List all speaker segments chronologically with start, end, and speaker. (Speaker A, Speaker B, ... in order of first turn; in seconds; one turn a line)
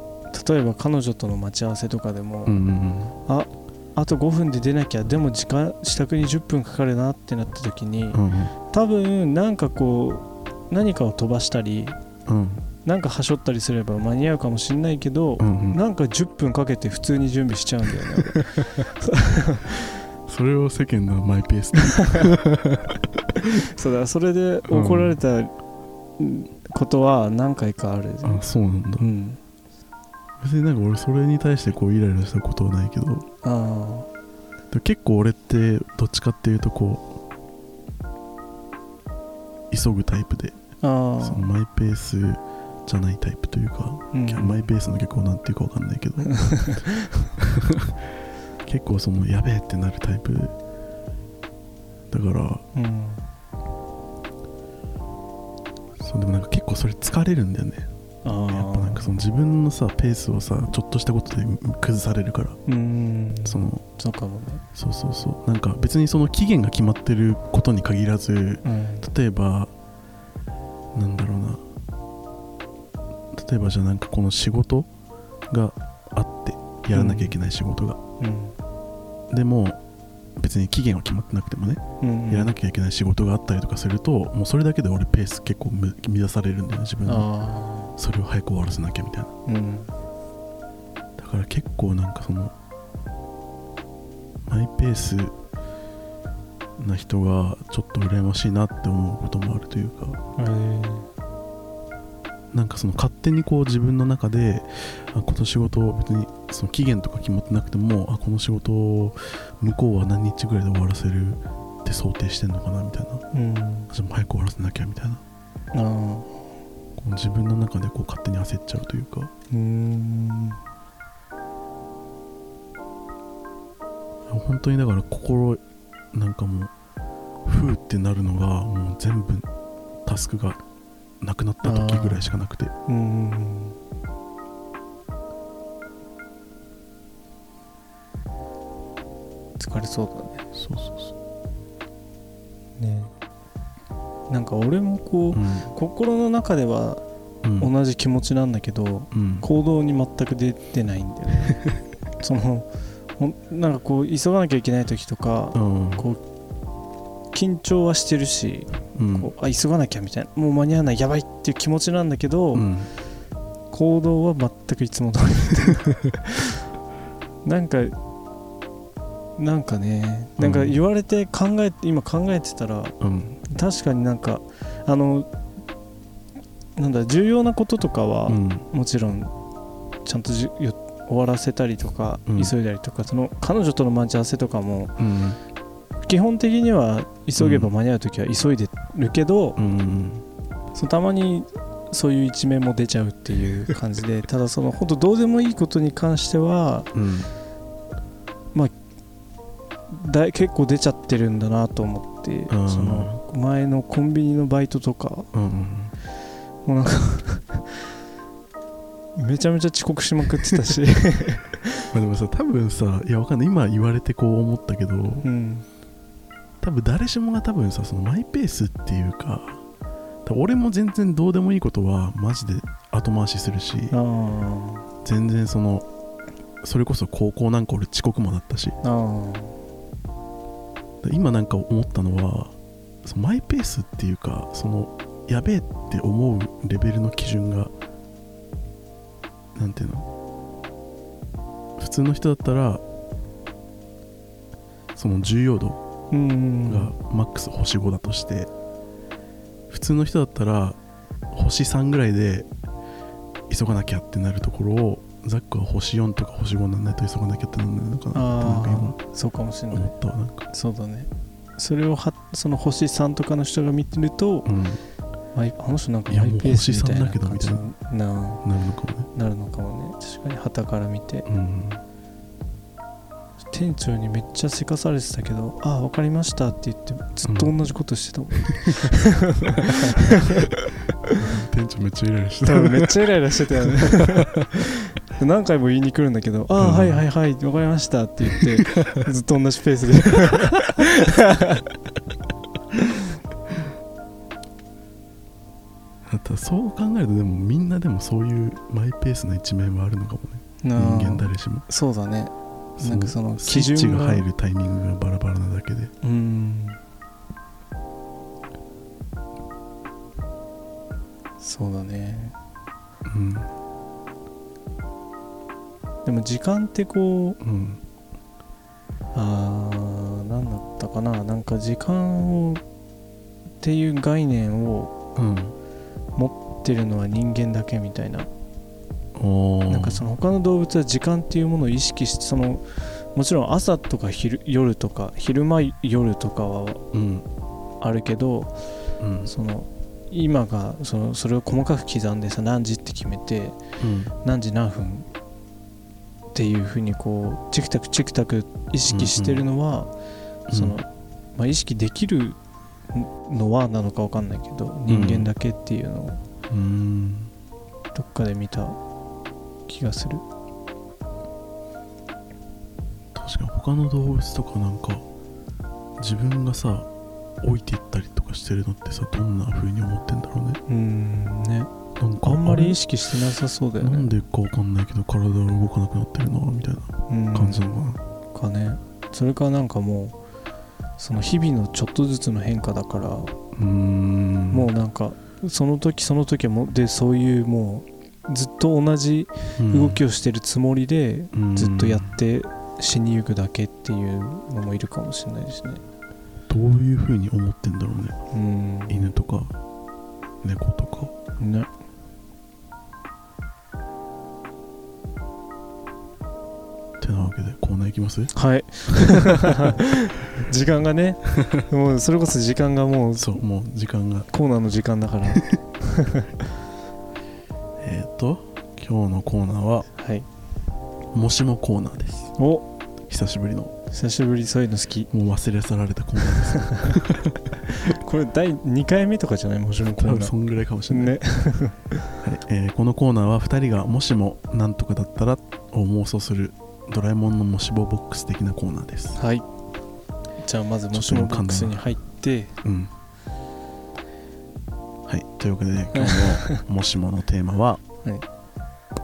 Speaker A: 0.3-2.6
Speaker B: 2.5-3.1
Speaker A: 3.3-12.0
Speaker B: 8.1-8.5
Speaker B: 12.2-12.7
Speaker A: 12.8-20.0
Speaker B: 15.4-15.8
Speaker B: 18.1-18.4
Speaker B: 20.3-23.5
Speaker A: 21.8-22.3
Speaker A: 23.4-25.5
Speaker B: 24.7-25.2
Speaker A: 26.2-28.4
Speaker B: 28.2-29.1
Speaker A: 29.0-29.4
Speaker B: 30.4-33.2
Speaker A: 33.4-34.1
Speaker B: 34.7-37.1
Speaker B: 39.7-40.6
Speaker A: 40.8-41.5
Speaker B: 41.2-46.8
Speaker A: 44.1-44.6
Speaker A: 46.3-47.2
Speaker B: 47.4-48.0
Speaker B: 48.6-50.5
Speaker B: 52.1-52.6
Speaker A: 52.7-53.2
Speaker B: 56.0-57.9
Speaker A: 58.2-59.1
Speaker B: 58.5-62.6
Speaker A: 62.7-64.6
Speaker B: 63.4-63.8
Speaker B: 64.7-69.7
Speaker A: 68.6-69.0
Speaker B: 70.9-71.6
Speaker B: 73.3-74.9
Speaker B: 75.5-78.0
Speaker A: 76.9-77.4
Speaker A: 78.2-78.5
Speaker B: 79.3-79.8
Speaker B: 80.4-87.3
Speaker A: 82.0-82.5
Speaker A: 87.0-87.9
Speaker B: 88.0-89.3
Speaker A: 89.5-89.9
Speaker B: 91.2-92.5
Speaker B: 94.5-95.3
Speaker B: 96.8-100.2
Speaker A: 100.4-101.1
Speaker B: 102.5-113.2
Speaker A: 113.3-113.9
Speaker B: 113.9-115.2
Speaker A: 115.7-116.4
Speaker B: 117.0-119.3
Speaker A: 119.5-120.6
Speaker B: 124.3-125.6
Speaker B: 126.1-126.7
Speaker B: 127.4-129.5
Speaker B: 130.0-130.6
Speaker B: 131.2-132.7
Speaker A: 131.6-132.3
Speaker A: 132.9-133.8
Speaker A: 139.6-140.4
Speaker B: 140.5-141.1
Speaker A: 142.8-143.1
Speaker A: 144.3-147.0
Speaker B: 145.3-145.7
Speaker B: 147.4-147.7
Speaker A: 147.6-151.6
Speaker B: 149.1-149.4
Speaker A: 152.2-156.2
Speaker B: 155.5-156.1
Speaker A: 157.3-162.7
Speaker B: 158.9-159.3
Speaker B: 162.5-162.9
Speaker A: 163.7-166.6
Speaker A: 167.4-167.9
Speaker A: 169.4-172.9
Speaker B: 170.4-170.8
Speaker B: 173.0-173.4
Speaker A: 173.5-175.3
Speaker A: 176.8-179.3
Speaker B: 178.3-178.7
Speaker A: 180.0-185.0
Speaker B: 182.3-182.5
Speaker B: 185.0-185.4
Speaker A: 186.1-189.6
Speaker B: 187.4-187.7
Speaker B: 189.6-190.2
Speaker A: 190.7-196.9
Speaker B: 196.9-197.3
Speaker A: 199.9-205.3
Speaker B: 202.5-203.2
Speaker B: 205.3-205.9
Speaker A: 206.6-207.8
Speaker A: 209.2-211.7
Speaker B: 211.9-215.2
Speaker A: 215.2-215.7
Speaker B: 216.6-219.6
Speaker B: 220.2-223.9
Speaker A: 223.9-224.9
Speaker B: 225.0-225.8
Speaker B: 226.6-228.8
Speaker A: 228.8-229.6
Speaker B: 231.0-237.7
Speaker B: 239.5-240.1
Speaker B: 241.8-242.8
Speaker B: 244.9-245.8
Speaker A: 246.1-246.9
Speaker B: 246.7-248.5
Speaker B: 249.7-250.8
Speaker B: 251.3-252.5
Speaker B: 253.5-259.0
Speaker A: 258.1-259.9
Speaker B: 259.7-260.5
Speaker A: 260.5-264.5
Speaker B: 264.4-264.8
Speaker A: 265.3-268.4
Speaker B: 266.1-267.6
Speaker B: 268.4-269.1
Speaker A: 269.1-271.3
Speaker B: 271.2-271.8
Speaker A: 273.5-281.2
Speaker B: 277.2-277.5
Speaker B: 278.4-278.9
Speaker B: 281.1-284.6
Speaker A: 282.4-291.6
Speaker B: 286.6-287.0
Speaker B: 288.4-289.0
Speaker B: 290.2-290.6
Speaker B: 296.1-301.6
Speaker A: 300.6-304.2
Speaker B: 302.8-305.9
Speaker A: 306.0-306.8
Speaker A: 311.4-312.4
Speaker B: 313.0-313.5
Speaker A: 316.0-317.4
Speaker B: 317.4-317.8
Speaker A: 319.1-322.6
Speaker A: 323.6-324.9
Speaker B: 325.1-325.6
Speaker A: 326.1-328.3
Speaker B: 329.1-330.0
Speaker A: 329.7-336.8
Speaker B: 336.9-337.2
Speaker A: 337.8-338.5
Speaker B: 339.0-339.3
Speaker A: 339.2-343.6
Speaker B: 343.8-344.1
Speaker A: 344.2-345.1
Speaker A: 346.3-349.9
Speaker B: 348.9-349.4
Speaker B: 350.5-350.8
Speaker A: 350.5-352.4
Speaker A: 352.9-356.2
Speaker B: 354.9-355.3
Speaker B: 356.5-357.3
Speaker A: 357.9-358.8
Speaker A: 359.7-360.2
Speaker B: 363.1-365.0
Speaker B: 366.0-366.9
Speaker B: 367.4-370.6
Speaker A: 370.7-371.7
Speaker B: 372.0-372.8
Speaker A: 372.2-374.1
Speaker B: 373.8-378.0
Speaker A: 377.1-377.8
Speaker A: 378.3-380.2
Speaker A: 381.0-383.3
Speaker B: 383.5-384.7
Speaker A: 384.5-395.8
Speaker B: 389.6-390.0
Speaker B: 391.3-392.2
Speaker B: 396.5-398.2
Speaker A: 398.3-399.1
Speaker B: 398.9-399.6
Speaker B: 400.4-401.1
Speaker A: 401.4-401.7
Speaker B: 407.0-408.3
Speaker A: 408.3-413.4
Speaker B: 408.9-409.3
Speaker B: 413.2-414.3
Speaker A: 414.3-416.3
Speaker B: 417.8-419.9
Speaker A: 419.9-420.2
Speaker B: 421.1-422.3
Speaker A: 422.4-422.6
Speaker B: 423.1-423.7
Speaker A: 423.9-425.1
Speaker B: 425.1-427.5
Speaker A: 426.3-427.0
Speaker A: 427.7-430.3
Speaker B: 429.9-431.2
Speaker A: 430.9-432.0
Speaker B: 432.2-439.2
Speaker A: 439.1-439.4
Speaker A: 440.4-442.6
Speaker B: 440.9-441.8
Speaker B: 442.6-442.9
Speaker B: 445.1-447.8
Speaker A: 445.9-446.6